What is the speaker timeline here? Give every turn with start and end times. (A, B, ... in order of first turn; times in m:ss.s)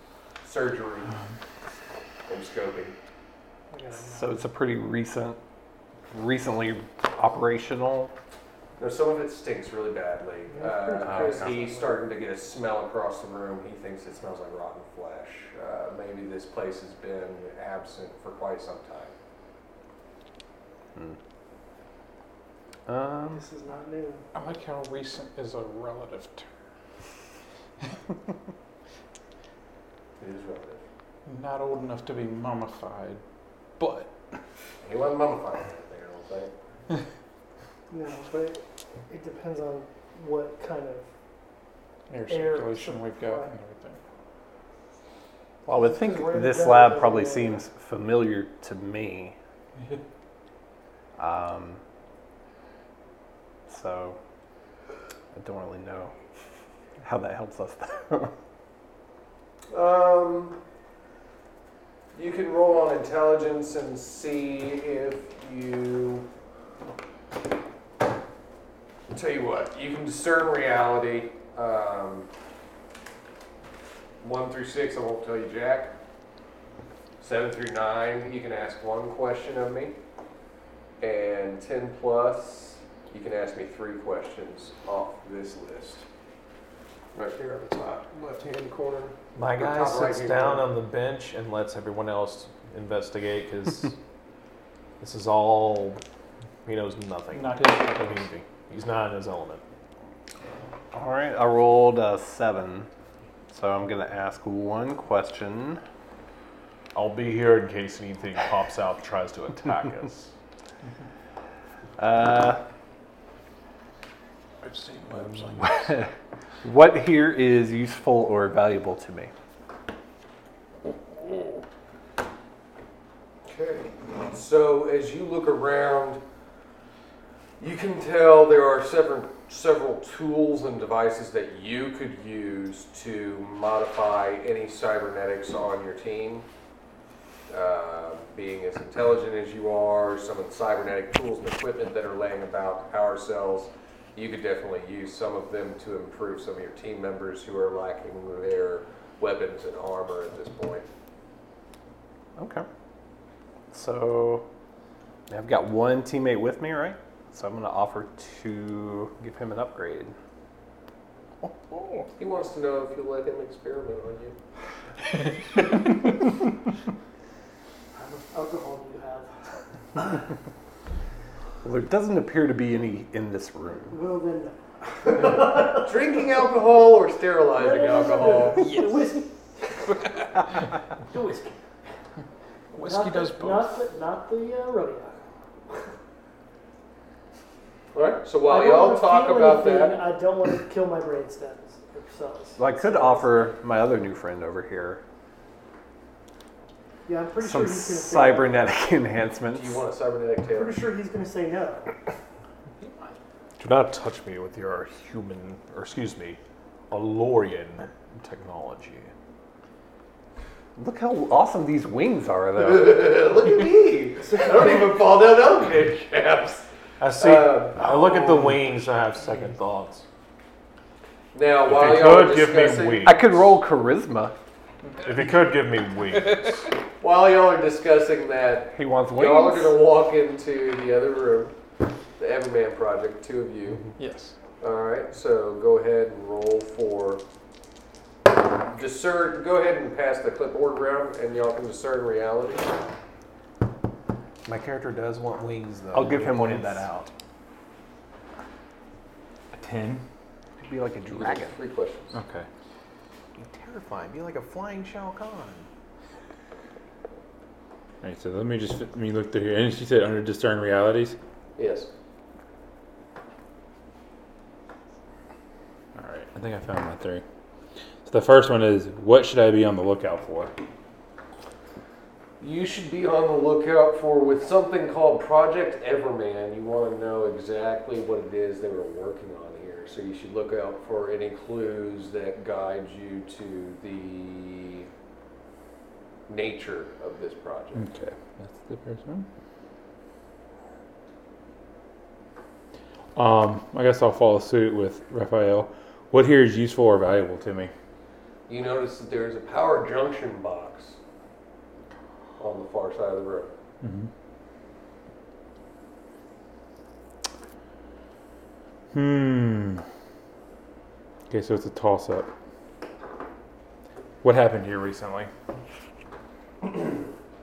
0:00.4-0:01.2 A
0:02.3-0:02.9 A
0:03.7-0:04.3 B
0:04.0-0:05.4 C
0:06.1-0:08.1 C
0:08.8-0:19.1 A
0:10.5-0:11.9 B
0:11.0-0:11.5 C
0:22.9-0:23.4 C
0:23.3-0:24.3 B
0:24.3-0:26.5 D
0:30.2-0:30.8 A
0:31.2-0:33.2 D
0:33.8-0:34.1 D
0:34.8-0:36.5 A
0:37.9-0:41.1 B
0:42.1-0:44.0 D
0:42.3-0:43.5 B
0:45.6-0:49.4 C
0:45.7-0:47.6 B
0:51.2-0:51.8 C
0:53.7-0:54.2 C
0:55.3-0:56.1 C
0:57.0-0:58.3 C
0:59.7-1:00.6 A
1:02.1-1:06.3 A
1:09.1-1:12.3 A
1:14.2-1:15.9 A
1:17.2-1:20.0 A
1:21.0-1:26.0 A
1:27.1-1:30.8 A
1:29.4-1:34.0 E
1:35.0-1:36.0 E
1:36.6-1:39.6 E
1:37.3-1:38.3 D
1:40.9-1:42.9 C
1:43.5-1:45.8 C
1:46.9-1:50.3 E
1:52.0-1:52.6 C
1:54.6-1:55.9 D
1:55.6-1:56.1 C
1:56.6-1:59.3 C
2:03.4-2:06.2 A
2:07.6-2:16.5 A
2:17.5-2:30.9 A
2:32.4-2:32.7 C
2:33.7-2:34.5 C
2:35.3-2:40.1 C
2:41.7-2:42.0 D
2:42.2-2:44.4 A
2:48.0-2:49.3 B
2:51.6-2:54.0 C
2:53.9-2:55.9 B
2:55.1-2:58.7 A
2:57.6-2:59.9 B
2:58.6-2:59.0 D
3:01.1-3:01.6 B
3:02.7-3:03.7 D
3:02.7-3:05.2 B
3:07.9-3:10.0 A
3:08.5-3:13.5 B
3:12.6-3:15.0 C
3:17.0-3:18.7 B
3:17.4-3:19.8 C
3:19.5-3:20.8 A
3:20.5-3:21.9 B
3:23.6-3:26.4 E
3:26.9-3:29.1 E
3:30.8-3:33.1 C
3:32.6-3:38.5 A
3:37.0-3:40.0 E
3:41.3-3:43.2 A
3:41.7-3:43.3 E
3:43.0-3:44.3 C
3:45.0-3:46.6 E
3:46.2-3:46.6 D
3:47.0-3:51.5 A
3:48.7-3:49.8 C
3:52.2-3:53.8 A
3:54.0-3:54.3 D
3:54.6-3:57.2 A
3:58.7-4:02.7 A
4:04.4-4:07.1 E
4:05.9-4:07.0 C
4:09.5-4:10.0 F
4:10.6-4:11.6 C
4:11.1-4:12.2 A
4:12.1-4:12.5 F
4:13.4-4:15.7 E
4:18.0-4:21.2 F
4:21.6-4:21.9 A
4:26.0-4:27.2 F
4:28.0-4:30.5 F
4:32.4-4:44.9 A
4:46.3-4:47.9 A
4:47.7-4:49.3 F
4:53.2-4:57.7 F
4:58.5-5:01.0 A
5:02.4-5:03.5 A
5:03.8-5:04.1 F
5:08.9-5:09.8 F
5:11.3-5:12.3 F
5:14.2-5:15.3 F
5:16.6-5:16.9 A